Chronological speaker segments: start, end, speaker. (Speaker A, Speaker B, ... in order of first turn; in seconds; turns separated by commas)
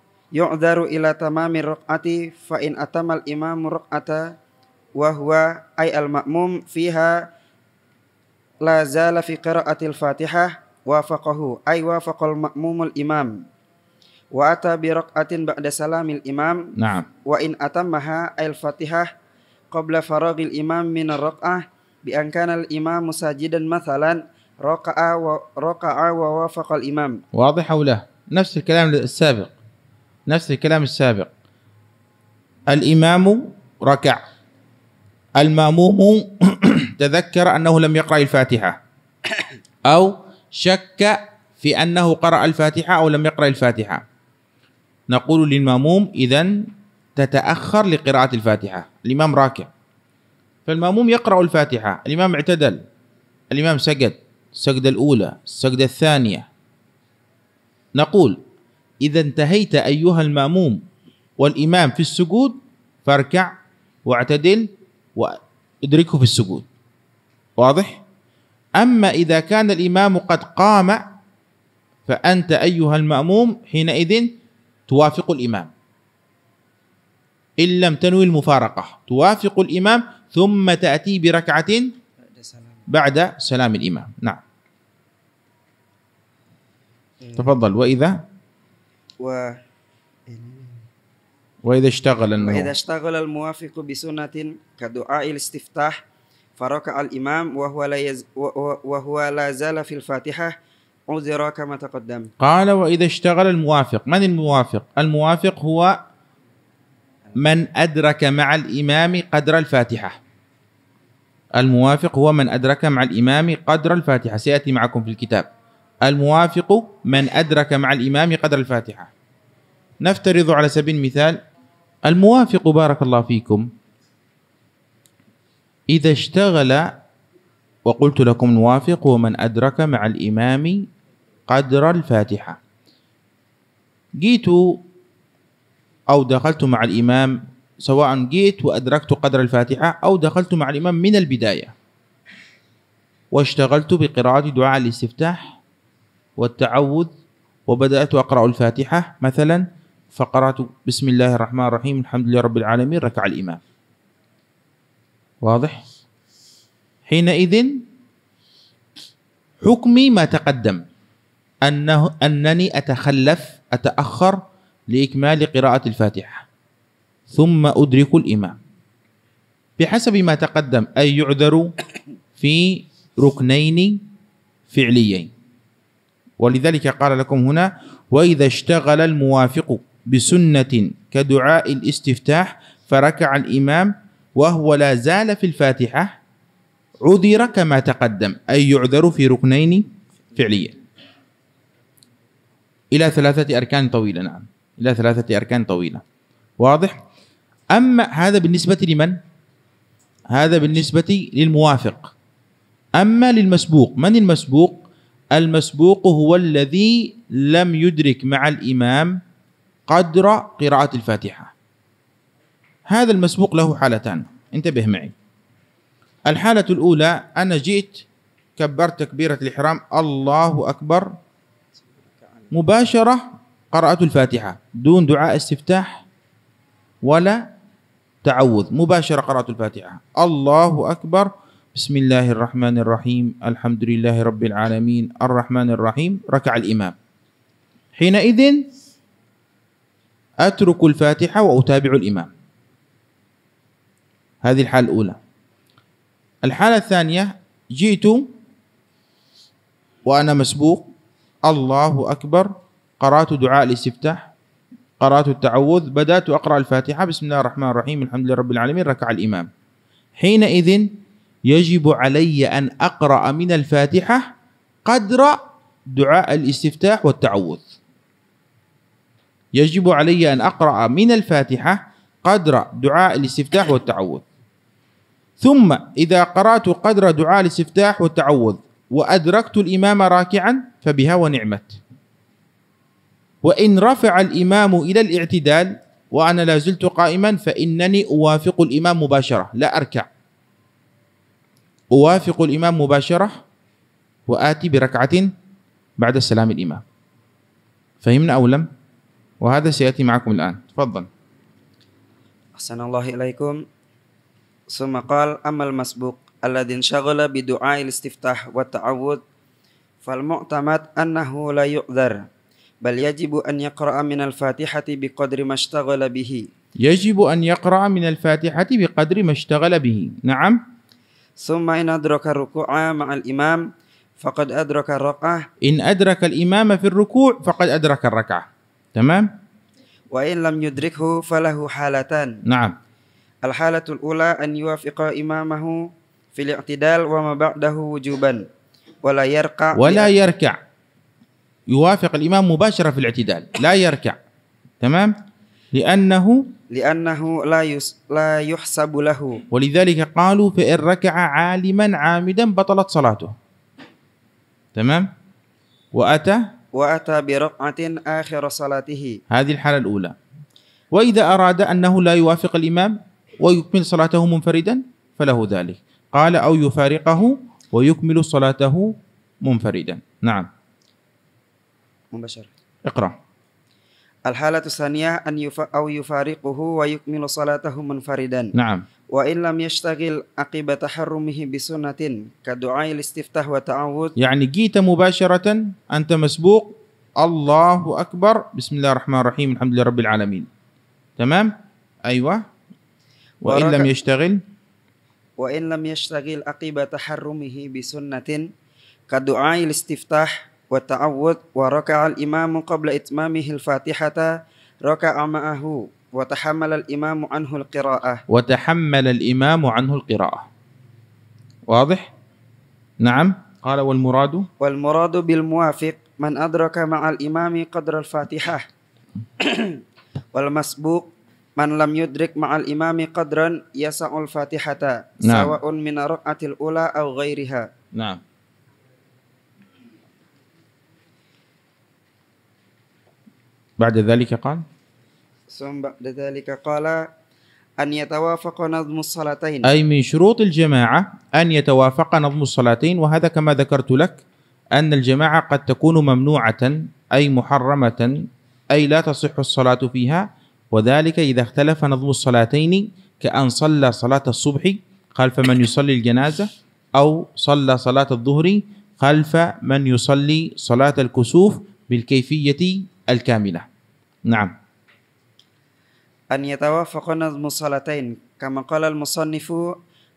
Speaker A: 0.3-4.3, Speaker A: 5.0-7.2, Speaker A: 8.6-13.3, Speaker A: 14.3-16.6, Speaker B: 16.8-17.1, Speaker A: 17.2-19.1, Speaker A: 19.7-27.2, Speaker B: 27.3-29.5, Speaker B: 30.3-31.3, Speaker B: 32.7-34.2, Speaker B: 35.4-38.8, Speaker B: 39.9-44.0, Speaker B: 45.1-49.7, Speaker B: 50.6-52.8, Speaker B: 53.5-56.5, Speaker B: 58.0-58.4, Speaker B: 59.0-60.8, Speaker B: 61.4-63.5, Speaker B: 64.0-66.7, Speaker B: 67.6-68.0, Speaker B: 68.8-71.0, Speaker B: 72.1-74.3, Speaker B: 74.9-75.7, Speaker B: 77.6-81.9, Speaker A: 82.2-82.8, Speaker B: 82.9-84.4, Speaker B: 87.3-88.2, Speaker A: 89.2-89.5, Speaker A: 90.3-90.8, Speaker B: 91.6-92.7, Speaker A: 92.4-96.0, Speaker A: 96.6-100.5, Speaker A: 101.1-102.3, Speaker B: 102.4-106.0, Speaker B: 107.3-110.2, Speaker B: 111.5-115.5, Speaker B: 116.0-119.1, Speaker B: 120.0-121.4, Speaker B: 122.0-123.7, Speaker B: 125.9-126.9, Speaker B: 127.8-130.9, Speaker B: 131.5-132.6, Speaker B: 134.2-134.8, Speaker B: 136.1-141.7, Speaker B: 143.3-145.6, Speaker B: 146.4-147.1, Speaker B: 147.7-153.6, Speaker B: 155.4-155.8, Speaker B: 157.1-157.8, Speaker B: 159.6-160.8, Speaker B: 161.6-166.4, Speaker B: 167.3-168.6, Speaker B: 169.8-171.7, Speaker B: 172.4-174.0, Speaker B: 174.7-175.3, Speaker B: 176.4-186.2, Speaker B: 187.0-190.8, Speaker B: 192.9-196.0, Speaker B: 196.6-197.0, Speaker B: 197.7-199.2, Speaker B: 200.3-202.1, Speaker B: 202.9-209.2, Speaker B: 209.9-211.5, Speaker B: 212.9-215.1, Speaker B: 216.2-218.0, Speaker B: 218.6-221.1, Speaker A: 222.2-222.5, Speaker B: 222.5-226.0, Speaker B: 227.0-227.4, Speaker B: 228.2-236.9, Speaker B: 238.0-238.7, Speaker B: 240.4-242.3, Speaker B: 244.4-245.2, Speaker B: 246.4-248.3, Speaker B: 250.1-250.9, Speaker B: 251.4-254.3, Speaker B: 255.0-259.5, Speaker B: 260.2-260.9, Speaker B: 261.5-264.3, Speaker B: 264.9-265.4, Speaker B: 265.9-267.6, Speaker B: 269.5-274.2, Speaker B: 275.4-281.8, Speaker B: 283.4-290.1, Speaker B: 291.9-293.4, Speaker B: 294.3-295.3, Speaker B: 296.0-296.8, Speaker B: 298.0-298.7, Speaker B: 299.4-301.1, Speaker A: 302.6-303.6, Speaker A: 304.7-309.2, Speaker A: 310.0-312.2, Speaker A: 312.8-316.5, Speaker B: 316.8-320.6, Speaker A: 321.4-323.6, Speaker A: 324.2-325.4, Speaker B: 325.6-329.3, Speaker A: 330.1-332.4, Speaker B: 332.4-332.8, Speaker A: 333.4-335.8, Speaker A: 336.3-338.4, Speaker A: 339.0-340.1, Speaker B: 339.7-340.6, Speaker B: 341.7-344.2, Speaker B: 344.8-345.1, Speaker B: 345.7-346.5, Speaker A: 346.7-349.4, Speaker B: 349.5-353.3, Speaker B: 354.7-355.1, Speaker B: 355.9-356.4, Speaker A: 356.7-359.2, Speaker B: 359.3-360.1, Speaker B: 360.9-370.5, Speaker A: 372.1-372.5, Speaker B: 372.8-373.1, Speaker A: 374.2-378.5, Speaker B: 378.5-378.8, Speaker A: 379.1-384.1, Speaker B: 384.2-390.5, Speaker B: 391.2-391.5, Speaker B: 392.1-392.4, Speaker A: 393.4-393.9, Speaker B: 393.4-394.4, Speaker A: 395.4-398.5, Speaker A: 399.1-404.3, Speaker A: 404.8-408.2, Speaker B: 408.3-410.4, Speaker B: 411.7-412.0, Speaker B: 413.0-414.5, Speaker A: 414.6-418.6, Speaker A: 419.4-419.8, Speaker A: 420.3-427.7, Speaker B: 425.2-425.6, Speaker B: 427.9-428.2, Speaker B: 433.8-434.6, Speaker A: 435.5-437.1, Speaker A: 437.8-439.7, Speaker B: 439.6-444.2, Speaker B: 444.7-463.6, Speaker B: 464.2-464.5, Speaker A: 466.3-469.7